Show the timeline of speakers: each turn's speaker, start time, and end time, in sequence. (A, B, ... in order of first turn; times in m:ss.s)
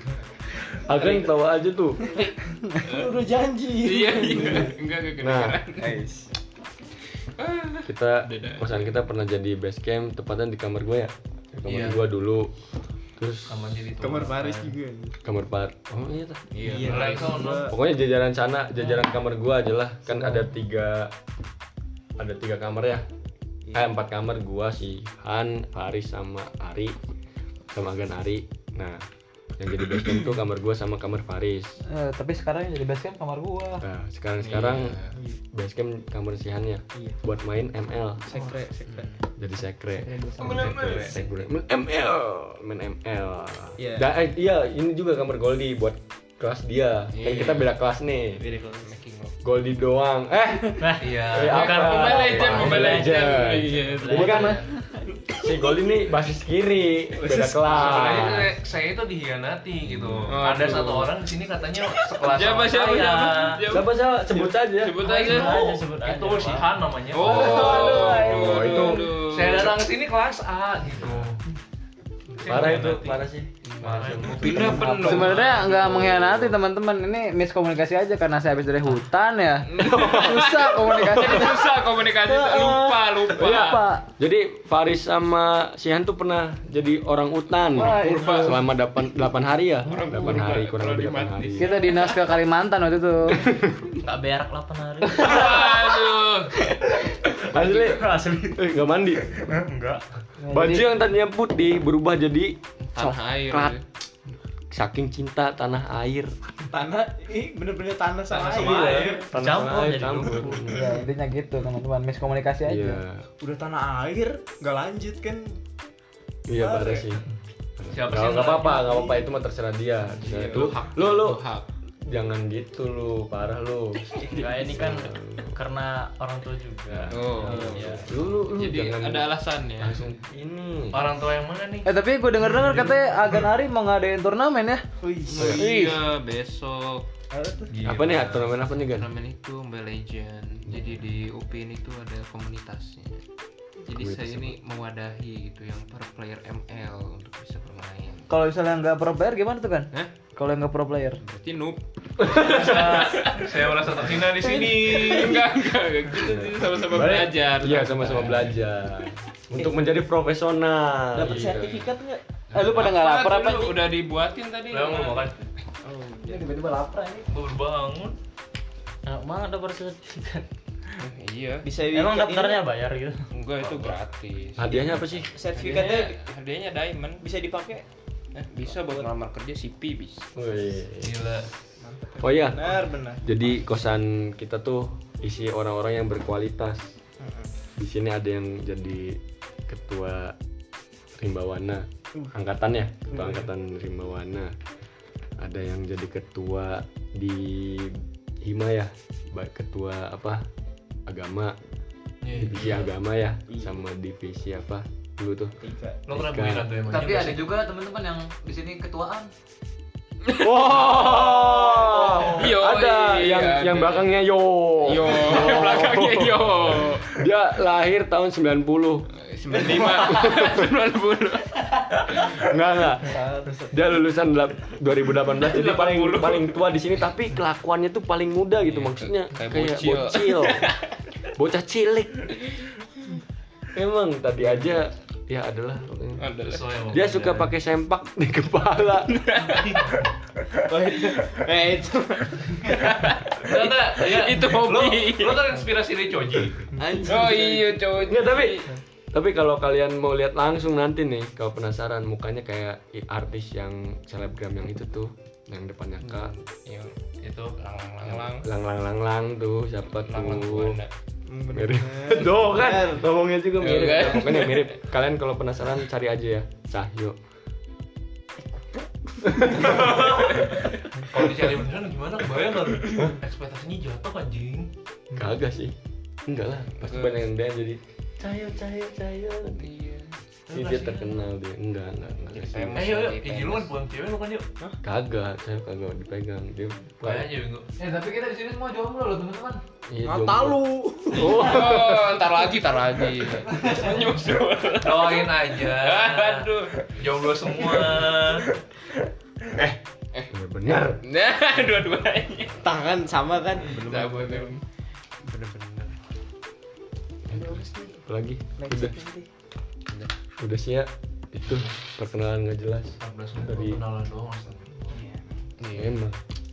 0:00.7-0:02.1 A
0:00.9-0:01.2 B
0:02.1-0:04.8 B
0:02.2-0:03.2 C
0:03.8-0:06.0 C
0:05.2-0:05.7 A
0:05.8-0:06.3 B
0:07.4-0:08.9 C
0:07.8-0:12.5 A
0:11.6-0:12.1 C
0:13.2-0:13.6 A
0:13.5-0:14.7 D
0:14.0-0:15.2 B
0:15.2-0:16.4 A
0:16.5-0:17.4 C
0:16.6-0:17.7 B
0:16.8-0:17.7 D
0:17.6-0:21.1 A
0:20.2-0:20.4 B
0:22.2-0:23.0 A
0:23.7-0:24.0 B
0:23.7-0:26.9 A
0:27.7-0:29.0 A
0:29.6-0:31.8 A
0:31.9-0:33.8 E
0:33.8-0:35.0 A
0:34.4-0:35.2 C
0:35.5-0:38.2 A
0:38.2-0:39.2 B
0:38.9-0:39.2 C
0:39.4-0:48.4 A
0:40.0-0:41.1 B
0:40.4-0:41.2 C
0:43.8-0:44.1 B
0:47.1-0:47.8 C
0:48.4-0:49.0 B
0:48.7-0:49.4 C
0:49.4-0:54.6 A
0:50.8-0:54.7 F
0:51.0-0:52.2 D
0:51.5-0:54.6 C
0:55.3-0:58.5 A
0:57.1-0:58.5 C
0:57.7-1:03.4 D
0:59.8-1:00.9 A
1:00.2-1:01.1 C
1:01.9-1:05.8 C
1:03.0-1:03.6 F
1:03.7-1:05.0 A
1:05.0-1:06.7 F
1:05.0-1:07.9 D
1:07.1-1:09.8 C
1:07.2-1:09.0 E
1:07.4-1:09.1 A
1:09.1-1:11.4 D
1:11.0-1:11.3 A
1:12.4-1:13.2 D
1:12.4-1:15.1 A
1:13.6-1:16.1 C
1:13.8-1:16.2 D
1:14.6-1:19.7 E
1:16.0-1:16.4 A
1:19.7-1:23.8 C
1:19.7-1:21.6 A
1:20.3-1:21.5 E
1:23.2-1:31.7 A
1:23.6-1:24.0 E
1:27.8-1:28.5 E
1:28.0-1:28.6 C
1:29.8-1:32.3 C
1:31.6-1:33.3 E
1:33.4-1:34.0 A
1:34.0-1:35.7 F
1:35.1-1:36.5 C
1:37.4-1:39.4 A
1:37.5-1:38.6 F
1:39.6-1:40.0 F
1:40.4-1:40.9 E
1:40.5-1:43.8 A
1:42.9-1:43.8 C
1:44.7-1:46.3 A
1:46.6-1:49.2 B
1:48.5-1:49.2 D
1:48.5-1:50.6 F
1:48.6-1:50.9 A
1:50.7-1:53.0 E
1:52.6-1:53.2 A
1:53.4-1:55.6 B
1:56.5-1:57.2 A
1:56.5-1:57.1 B
1:57.8-2:01.4 A
1:57.9-1:58.8 D
1:58.7-1:59.3 B
2:00.2-2:00.4 D
2:00.2-2:00.7 B
2:00.4-2:01.6 C
2:02.1-2:05.5 A
2:04.2-2:08.2 F
2:06.9-2:11.1 A
2:07.1-2:10.0 C
2:10.9-2:11.9 D
2:11.9-2:14.9 E
2:12.5-2:13.2 D
2:15.0-2:15.7 B
2:15.2-2:17.1 C
2:15.4-2:15.7 A
2:17.3-2:17.8 B
2:17.7-2:18.6 D
2:17.8-2:19.1 A
2:18.8-2:23.2 C
2:20.7-2:21.0 A
2:23.8-2:28.3 C
2:23.9-2:24.6 A
2:28.3-2:31.2 E
2:31.2-2:38.6 C
2:32.2-2:33.1 A
2:32.4-2:35.5 D
2:34.4-2:34.7 B
2:36.2-2:41.9 A
2:41.1-2:42.2 B
2:42.5-2:45.3 C
2:42.5-2:43.7 E
2:44.7-2:45.5 D
2:45.8-2:46.5 B
2:46.3-2:47.2 E
2:47.2-2:48.2 D
2:49.0-2:51.0 F
2:51.0-2:51.7 C
2:51.6-2:52.6 B
2:51.9-2:53.2 F
2:53.3-2:57.2 C
2:54.6-2:55.3 A
2:54.7-2:56.2 B
2:57.2-2:57.8 B
2:58.3-3:00.3 C
2:58.6-2:59.1 B
3:00.3-3:01.2 A
3:01.0-3:01.5 D
3:01.8-3:03.3 B
3:02.2-3:07.0 A
3:07.2-3:07.5 B
3:07.8-3:10.3 A
3:11.2-3:14.5 A
3:13.2-3:13.4 B
3:15.4-3:20.4 A
3:21.1-3:21.5 A
3:22.2-3:22.7 D
3:22.3-3:25.5 A
3:23.5-3:23.8 B
3:25.6-3:26.0 B
3:26.1-3:27.6 D
3:26.1-3:26.7 A
3:26.9-3:29.3 E
3:30.2-3:34.1 C
3:30.3-3:39.0 A
3:31.5-3:32.3 E
3:34.8-3:37.2 C
3:35.3-3:35.6 B
3:39.1-3:42.2 C
3:39.7-3:40.7 A
3:42.1-3:50.7 A
3:43.0-3:43.8 B
3:45.3-3:46.7 C
3:48.6-3:51.0 C
3:51.3-3:52.5 A
3:53.7-3:56.4 A
3:56.2-3:56.7 C
3:56.4-3:57.5 D
3:56.9-3:59.2 A
3:59.1-3:59.8 C
3:59.6-4:00.1 D
4:00.5-4:03.0 B
4:02.7-4:05.5 C
4:03.4-4:06.7 D
4:06.8-4:08.8 C
4:06.8-4:07.7 B
4:07.9-4:16.3 A
4:16.0-4:17.0 C
4:17.2-4:17.6 D
4:17.6-4:18.5 C
4:18.0-4:20.8 A
4:20.0-4:20.9 C
4:21.2-4:23.0 B
4:21.5-4:27.2 A
4:23.6-4:24.8 C
4:28.5-4:29.9 B
4:29.5-4:30.4 D
4:30.3-4:30.6 C
4:31.0-4:34.7 D
4:35.1-4:35.7 A
4:36.2-4:39.6 A
4:36.8-4:37.3 C
4:39.6-4:40.2 C
4:40.5-4:41.2 D
4:40.5-4:42.9 A
4:42.3-4:43.7 C
4:42.8-4:44.4 D
4:44.8-4:47.3 A
4:47.0-4:47.7 D
4:47.9-4:49.6 E
4:49.9-4:50.6 A
4:50.0-4:51.6 B
4:51.1-4:52.2 A
4:51.2-4:56.9 C
4:54.8-4:58.5 D
4:57.7-4:57.9 C
5:00.1-5:02.6 C
5:00.3-5:01.0 A
5:02.6-5:04.6 B
5:03.6-5:04.6 C
5:04.0-5:04.3 D
5:05.2-5:06.0 C
5:07.3-5:08.9 A
5:07.3-5:08.0 B
5:08.6-5:09.3 B
5:10.4-5:13.8 A
5:13.0-5:15.0 D
5:14.9-5:15.2 B
5:15.6-5:16.0 C
5:15.7-5:16.2 A